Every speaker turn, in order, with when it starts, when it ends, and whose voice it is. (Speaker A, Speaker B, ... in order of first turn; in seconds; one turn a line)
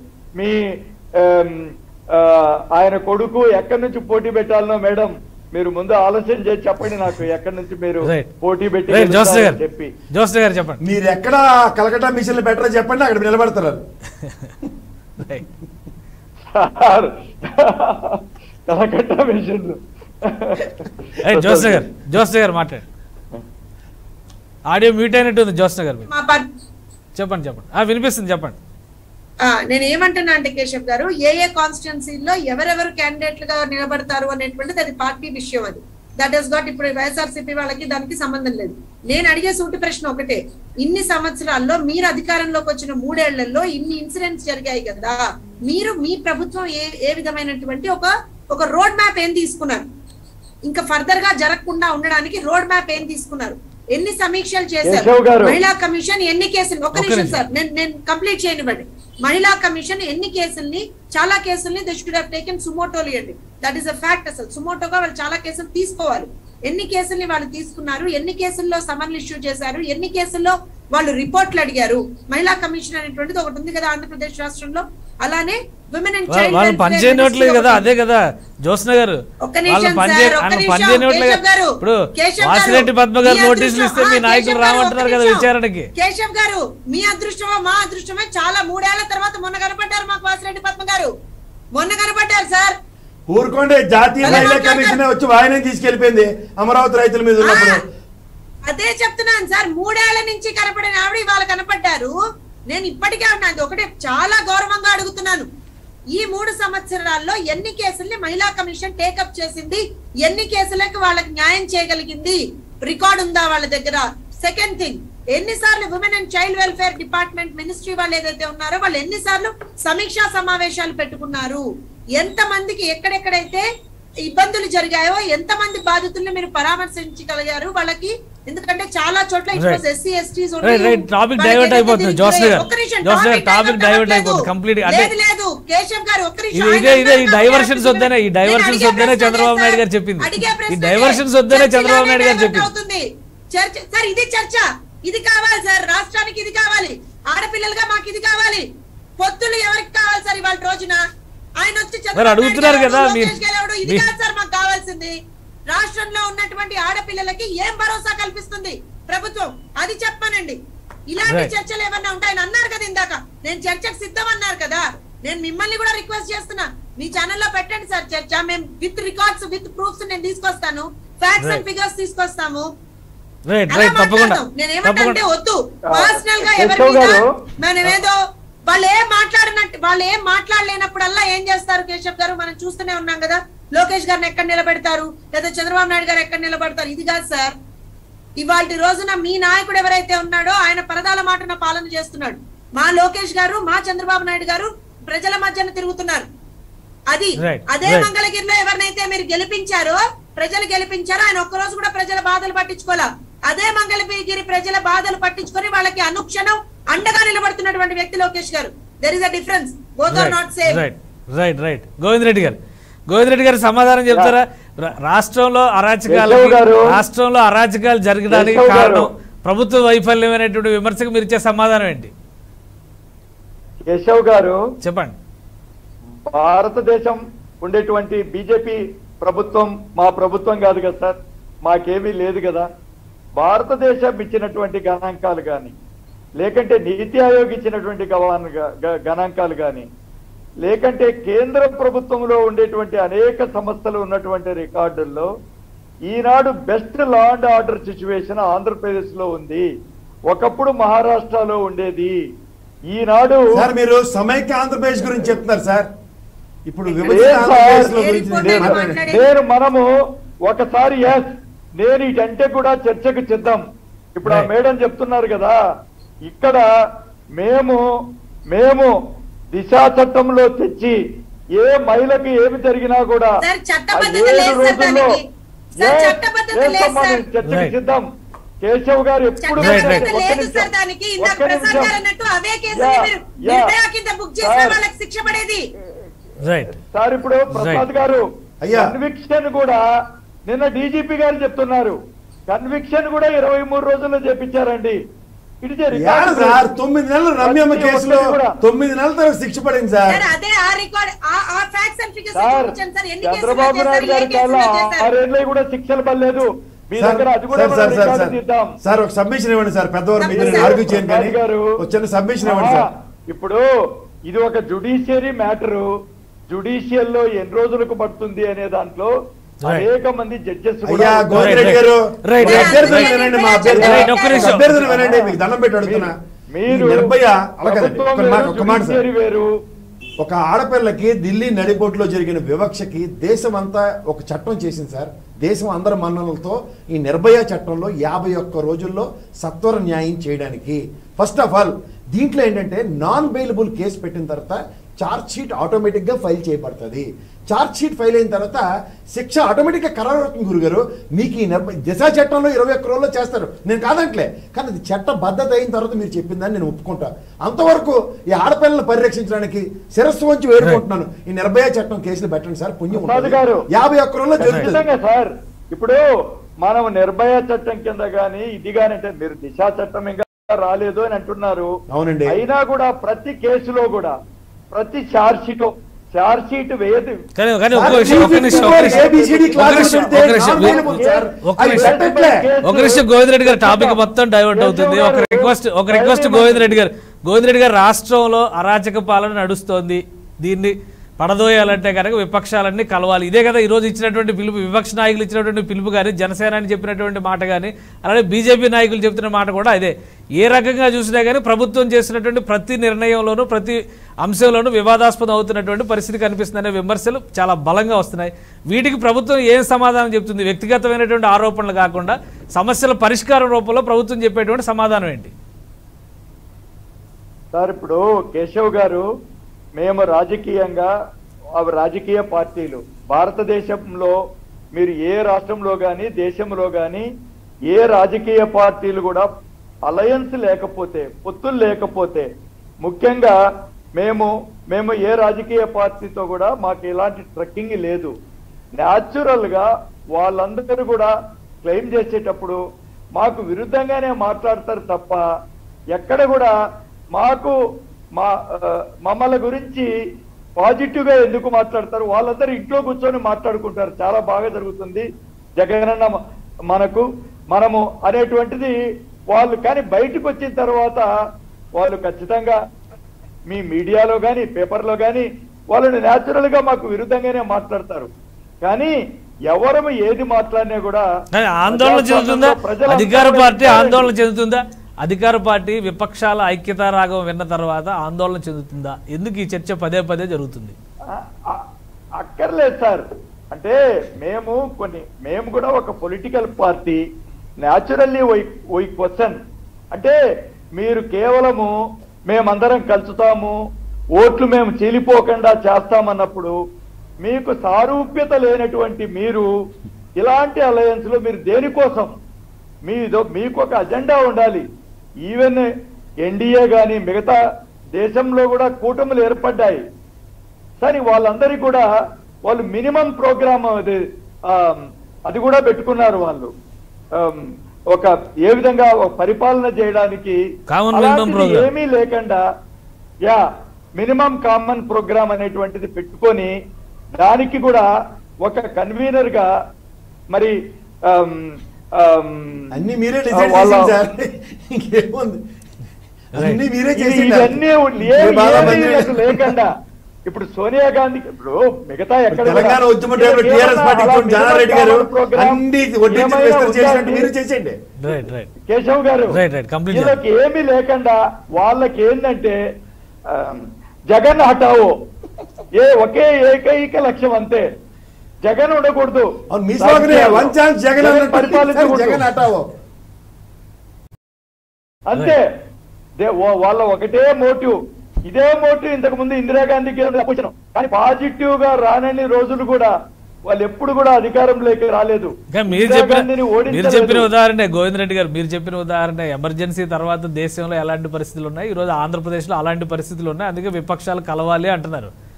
Speaker A: 0.4-9.9
Speaker B: 8.0-8.3
Speaker B: 8.9-9.6
Speaker B: 10.1-10.8
Speaker C: 10.8-13.8
Speaker B: 14.2-14.5
Speaker A: 16.5-21.8
Speaker B: 21.2-22.9
Speaker B: 24.7-26.1
Speaker D: 26.1-26.4
Speaker B: 27.1-28.6
Speaker D: 29.4-49.8
Speaker D: 50.7-77.9
Speaker A: 54.8-55.6
Speaker B: 56.9-57.4
Speaker B: 76.3-85.9
Speaker D: 79.4-91.1
Speaker D: 91.8-92.8
Speaker C: 93.3-97.8
Speaker D: 94.2-95.0
Speaker D: 97.4-97.8
Speaker D: 98.7-102.1
Speaker D: 102.7-105.5
Speaker D: 106.1-121.6
Speaker D: 122.2-123.6
Speaker D: 124.2-148.7
Speaker B: 129.6-129.8
Speaker B: 130.6-135.1
Speaker B: 136.5-142.7
Speaker D: 149.2-151.0
Speaker D: 151.6-155.2
Speaker B: 152.2-154.1
Speaker D: 155.7-160.6
Speaker D: 161.1-172.7
Speaker B: 173.5-175.2
Speaker D: 173.7-178.2
Speaker A: 175.9-177.2
Speaker D: 178.7-187.5
Speaker D: 188.4-196.3
Speaker D: 197.1-210.8
Speaker B: 197.4-198.1
Speaker B: 210.1-222.1
Speaker A: 214.1-214.3
Speaker A: 216.1-216.9
Speaker A: 218.3-219.1
Speaker A: 223.9-224.6
Speaker B: 224.8-225.1
Speaker A: 226.3-232.7
Speaker A: 233.4-235.7
Speaker A: 236.4-239.9
Speaker A: 240.6-245.3
Speaker A: 246.1-249.7
Speaker A: 250.3-252.2
Speaker A: 252.9-253.6
Speaker C: 253.5-255.9
Speaker C: 256.7-259.0
Speaker A: 257.0-259.9
Speaker D: 257.1-259.2
Speaker A: 260.4-263.6
Speaker A: 264.2-265.6
Speaker B: 264.2-264.5
Speaker A: 266.3-266.7
Speaker A: 267.4-267.8
Speaker A: 268.5-268.9
Speaker A: 269.5-271.0
Speaker A: 271.6-273.4
Speaker D: 273.4-277.2
Speaker A: 273.9-275.1
Speaker A: 275.7-278.1
Speaker B: 277.4-277.7
Speaker A: 278.6-280.7
Speaker D: 279.4-285.6
Speaker B: 279.6-280.1
Speaker A: 281.2-281.9
Speaker A: 282.8-283.7
Speaker A: 284.4-284.8
Speaker B: 286.4-286.7
Speaker A: 286.8-289.8
Speaker B: 287.5-287.8
Speaker C: 288.6-288.9
Speaker A: 290.5-292.0
Speaker A: 292.5-295.0
Speaker A: 295.6-296.6
Speaker C: 295.9-300.2
Speaker A: 297.4-298.6
Speaker D: 300.1-305.1
Speaker A: 302.3-308.7
Speaker C: 307.0-312.9
Speaker D: 310.2-310.7
Speaker A: 310.3-311.7
Speaker A: 312.4-313.7
Speaker A: 314.3-315.9
Speaker A: 316.5-319.1
Speaker A: 319.6-321.8
Speaker C: 320.9-326.1
Speaker B: 321.3-323.1
Speaker D: 322.4-324.6
Speaker A: 323.7-327.1
Speaker B: 323.8-324.7
Speaker C: 326.7-329.0
Speaker A: 327.7-329.5
Speaker C: 330.2-364.8
Speaker A: 362.9-363.7
Speaker A: 364.4-366.1
Speaker B: 364.5-364.7
Speaker A: 366.6-371.7
Speaker C: 371.9-372.4
Speaker A: 372.3-374.1
Speaker A: 374.7-377.2
Speaker B: 377.4-381.9
Speaker C: 377.7-382.4
Speaker A: 377.8-384.0
Speaker B: 382.6-415.3
Speaker A: 384.5-386.8
Speaker A: 417.5-419.1
Speaker A: 419.8-420.9
Speaker A: 421.6-424.1
Speaker A: 424.7-427.1
Speaker A: 427.7-429.3
Speaker A: 429.9-432.3
Speaker A: 432.8-433.4
Speaker A: 433.9-438.1
Speaker A: 438.8-441.1
Speaker A: 441.6-442.6
Speaker A: 443.1-445.2
Speaker A: 445.9-446.5
Speaker A: 447.1-447.6
Speaker A: 448.1-449.9
Speaker A: 450.6-455.1
Speaker A: 455.6-456.2
Speaker A: 456.7-458.8
Speaker A: 459.3-461.1
Speaker A: 461.8-462.6
Speaker A: 463.5-468.1
Speaker A: 468.6-468.9
Speaker A: 469.5-471.1
Speaker B: 471.3-480.8
Speaker A: 471.7-474.1
Speaker A: 481.1-481.6
Speaker A: 482.2-487.0
Speaker A: 487.6-489.4
Speaker A: 489.9-490.2
Speaker A: 490.8-491.7
Speaker A: 492.3-493.6
Speaker A: 494.1-496.5
Speaker A: 497.2-499.5
Speaker A: 500.2-502.1
Speaker A: 502.9-504.6
Speaker A: 505.3-505.7
Speaker A: 506.2-507.4
Speaker A: 508.0-509.8
Speaker A: 510.8-511.9
Speaker A: 512.4-516.5
Speaker A: 517.1-520.4
Speaker B: 520.7-521.7
Speaker A: 520.9-522.4
Speaker A: 524.0-526.5
Speaker A: 527.2-527.9
Speaker A: 528.4-529.5
Speaker A: 531.1-532.7
Speaker C: 532.7-535.4
Speaker A: 533.3-533.9
Speaker B: 536.3-536.6
Speaker C: 536.4-539.5
Speaker A: 537.0-539.7
Speaker A: 540.3-545.6
Speaker C: 542.3-547.8
Speaker A: 546.1-547.3
Speaker B: 548.0-548.5
Speaker A: 548.7-549.4
Speaker B: 549.3-550.2
Speaker A: 549.9-552.6
Speaker A: 553.3-554.9
Speaker A: 555.8-557.7
Speaker A: 558.4-562.2
Speaker C: 559.5-562.7
Speaker A: 565.1-565.4
Speaker A: 566.2-572.9
Speaker A: 573.5-577.3
Speaker B: 575.5-585.1